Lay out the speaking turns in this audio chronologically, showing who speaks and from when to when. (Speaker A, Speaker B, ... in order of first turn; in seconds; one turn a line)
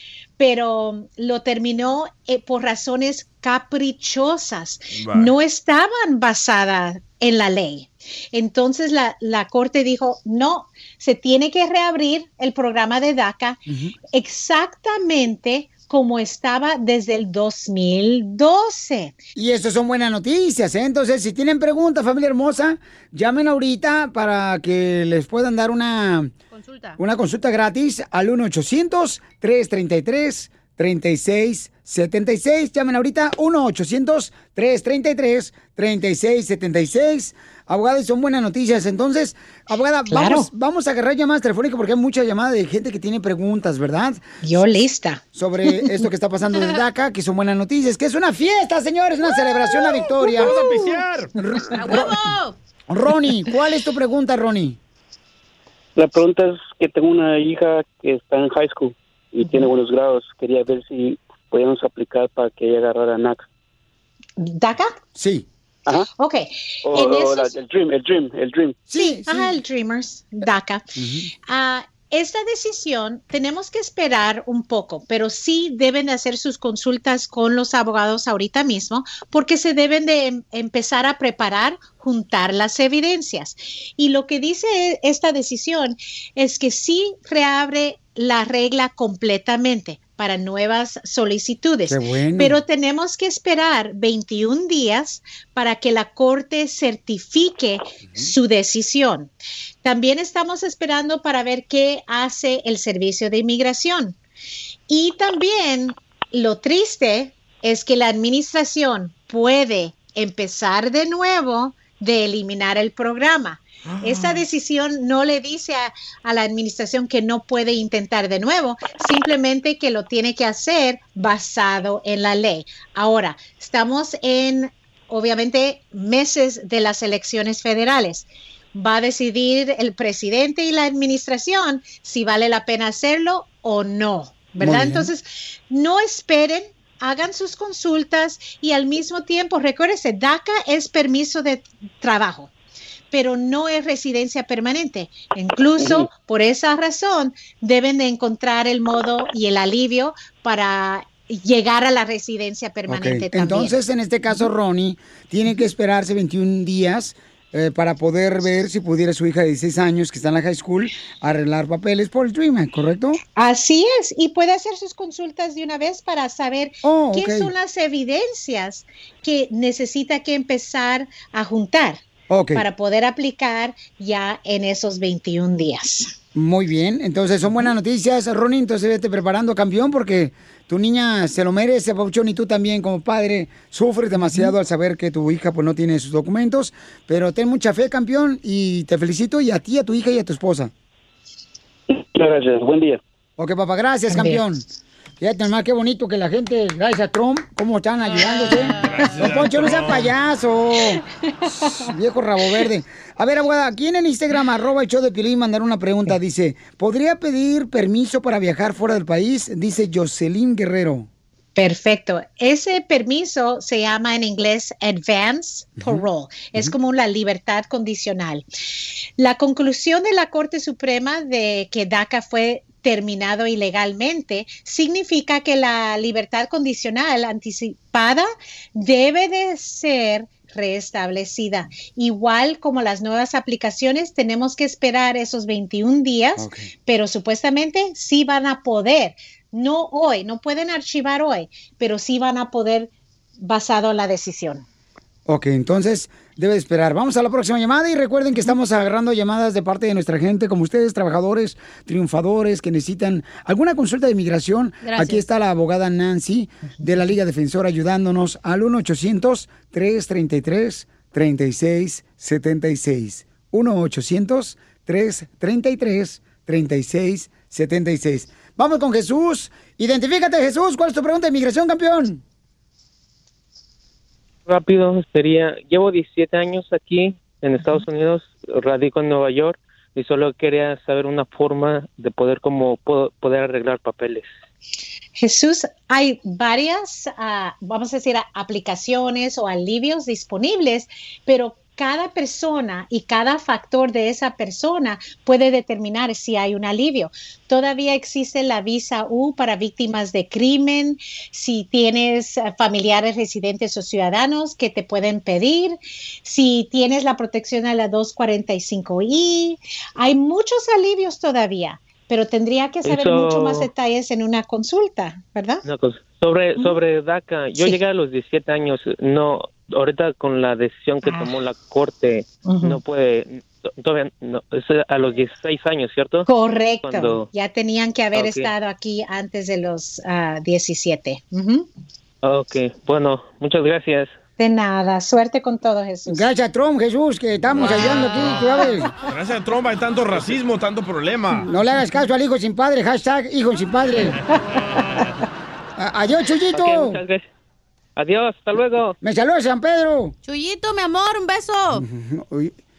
Speaker A: 0.4-13.6
Speaker B: 5.0-5.3
Speaker A: 14.1-19.1
Speaker C: 19.3-26.3
Speaker D: 26.5-27.0
Speaker C: 27.0-44.2
Speaker A: 40.1-40.5
Speaker A: 44.4-45.2
Speaker C: 45.3-50.6
Speaker B: 50.2-51.3
Speaker D: 50.4-50.8
Speaker C: 51.4-52.1
Speaker D: 51.7-52.5
Speaker C: 52.9-54.8
Speaker E: 56.0-63.4
Speaker A: 64.4-64.9
Speaker C: 65.2-65.5
Speaker A: 66.2-67.6
Speaker E: 66.9-68.7
Speaker C: 68.9-69.6
Speaker A: 68.9-70.9
Speaker C: 71.0-71.3
Speaker A: 71.5-99.3
Speaker C: 91.9-92.6
Speaker A: 99.8-104.2
Speaker A: 104.9-142.5
Speaker C: 134.6-135.1
Speaker A: 143.1-153.8
Speaker C: 152.9-163.2
Speaker A: 163.3-172.0
Speaker C: 166.8-167.5
Speaker C: 172.3-172.6
Speaker A: 172.5-176.1
Speaker C: 176.3-190.7
Speaker C: 193.4-194.6
Speaker A: 194.1-194.4
Speaker C: 195.2-201.0
Speaker B: 198.8-200.1
Speaker C: 201.6-211.1
Speaker A: 211.6-218.4
Speaker A: 219.2-242.9
Speaker C: 236.4-236.7
Speaker A: 243.4-244.6
Speaker C: 245.3-272.2
Speaker D: 254.8-255.2
Speaker F: 274.5-284.3
Speaker A: 285.2-315.6
Speaker F: 312.8-313.7
Speaker F: 315.6-326.3
Speaker A: 321.0-321.4
Speaker A: 322.4-322.8
Speaker A: 326.2-331.6
Speaker F: 326.8-327.3
Speaker F: 328.1-328.5
Speaker F: 332.2-334.2
Speaker A: 334.4-336.3
Speaker C: 336.1-338.9
Speaker D: 338.0-338.4
Speaker B: 339.0-341.5
Speaker C: 341.4-344.2
Speaker C: 345.8-347.0
Speaker F: 346.5-347.2
Speaker F: 348.0-349.0
Speaker C: 349.0-350.1
Speaker D: 350.2-351.8
Speaker C: 351.7-352.5